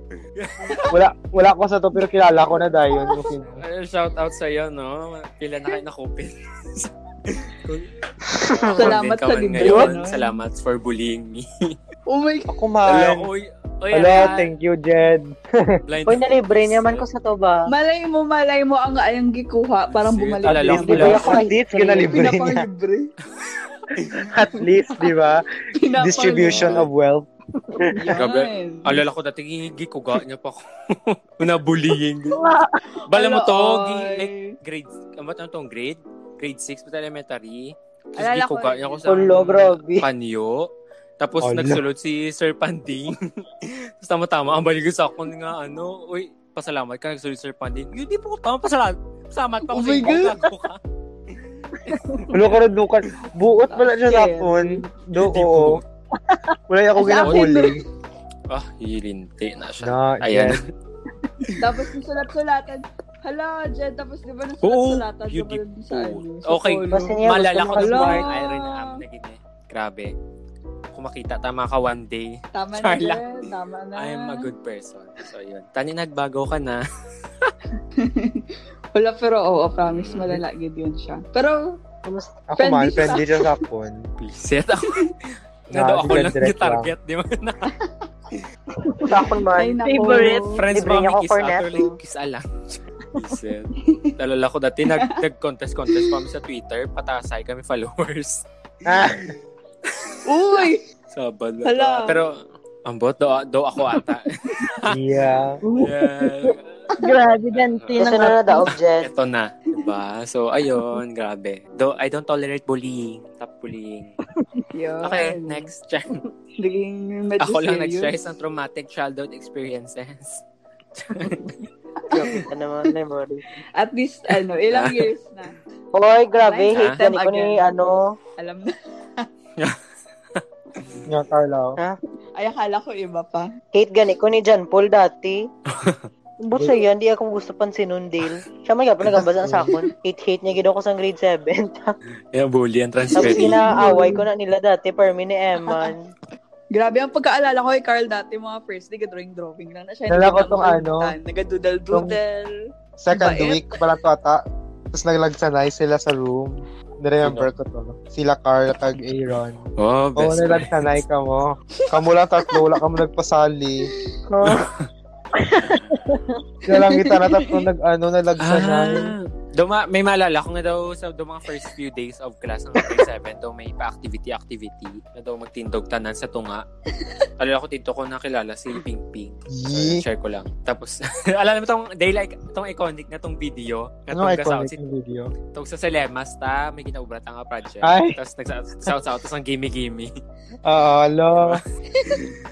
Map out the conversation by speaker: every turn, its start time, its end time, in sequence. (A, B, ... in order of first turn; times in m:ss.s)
0:00.4-0:00.9 A
0:00.9-0:03.6 B
0:03.6-0:11.8 A
0:08.8-0:10.3 C
0:09.6-0:09.9 D
0:12.1-0:12.5 C
0:12.5-0:13.3 B
0:12.9-0:14.5 A
0:13.9-0:15.8 B
0:15.9-0:17.1 A
0:16.1-0:17.7 E
0:17.7-0:23.1 C
0:19.9-0:21.3 A
0:20.5-0:22.6 B
0:20.8-0:22.1 E
0:24.3-0:25.4 B
0:25.8-0:26.8 C
0:26.0-0:28.2 B
0:26.4-0:26.9 A
0:27.9-0:29.0 C
0:28.2-0:32.4 A
0:32.3-0:32.8 D
0:33.1-0:34.6 C
0:33.1-0:50.8 A
0:38.2-0:39.1 C
0:39.1-0:40.1 E
0:41.4-0:41.8 B
0:49.7-0:50.5 C
0:51.4-0:52.4 A
0:52.3-0:55.8 B
0:53.7-0:54.9 C
0:55.2-0:55.8 A
0:56.7-0:57.8 B
0:57.0-0:57.8 C
0:58.5-1:00.7 A
0:59.8-1:00.6 B
1:01.6-1:07.2 C
1:04.6-1:10.1 A
1:06.9-1:08.3 E
1:07.8-1:09.0 C
1:10.9-1:16.8 A
1:12.5-1:14.4 C
1:18.0-1:21.8 C
1:19.9-1:20.4 A
1:22.0-1:22.4 E
1:22.5-1:24.0 B
1:22.6-1:23.6 C
1:24.2-1:25.1 A
1:25.7-1:27.7 A
1:25.7-1:26.9 B
1:29.0-1:29.8 E
1:29.0-1:30.6 C
1:29.8-1:30.6 D
1:30.3-1:39.3 A
1:30.7-1:32.0 E
1:33.8-1:34.1 C
1:38.8-1:39.4 B
1:39.9-1:40.2 A
1:40.3-1:40.8 C
1:41.1-1:45.0 A
1:41.6-1:42.2 C
1:44.9-1:45.6 B
1:45.6-1:48.7 D
1:45.8-1:46.9 A
1:47.5-1:54.2 A
1:48.0-1:49.1 E
1:54.7-1:55.7 C
1:55.0-1:56.3 A
1:56.6-1:58.1 C
1:57.4-2:00.4 A
2:01.0-2:01.6 A
2:02.1-2:02.5 C
2:02.1-2:03.4 E
2:03.8-2:05.6 C
2:04.7-2:05.1 A
2:05.9-2:08.2 E
2:06.4-2:07.7 C
2:08.4-2:09.3 C
2:10.4-2:11.0 A
2:11.1-2:11.8 B
2:12.4-2:13.5 C
2:13.7-2:15.5 E
2:15.7-2:16.1 A
2:16.4-2:22.0 E
2:22.3-2:23.6 A
2:23.2-2:24.2 C
2:23.2-2:26.1 E
2:26.7-2:32.5 C
2:30.1-2:31.1 B
2:31.9-2:32.2 B
2:33.0-2:34.4 B
2:33.1-2:33.8 C
2:34.9-2:43.9 B
2:37.2-2:37.5 A
2:39.8-2:41.0 A
2:44.3-2:44.6 E
2:44.5-2:44.9 A
2:45.6-2:46.2 D
2:45.6-2:45.9 A
2:46.7-2:49.1 B
2:46.7-2:47.6 C
2:48.4-2:56.6 A
2:57.4-3:04.8 A
2:59.5-3:00.0 B
3:04.1-3:05.3 B
3:05.5-3:10.1 A
3:07.8-3:08.2 B
3:10.6-3:11.6 B
3:11.4-3:12.4 A
3:12.0-3:12.2 C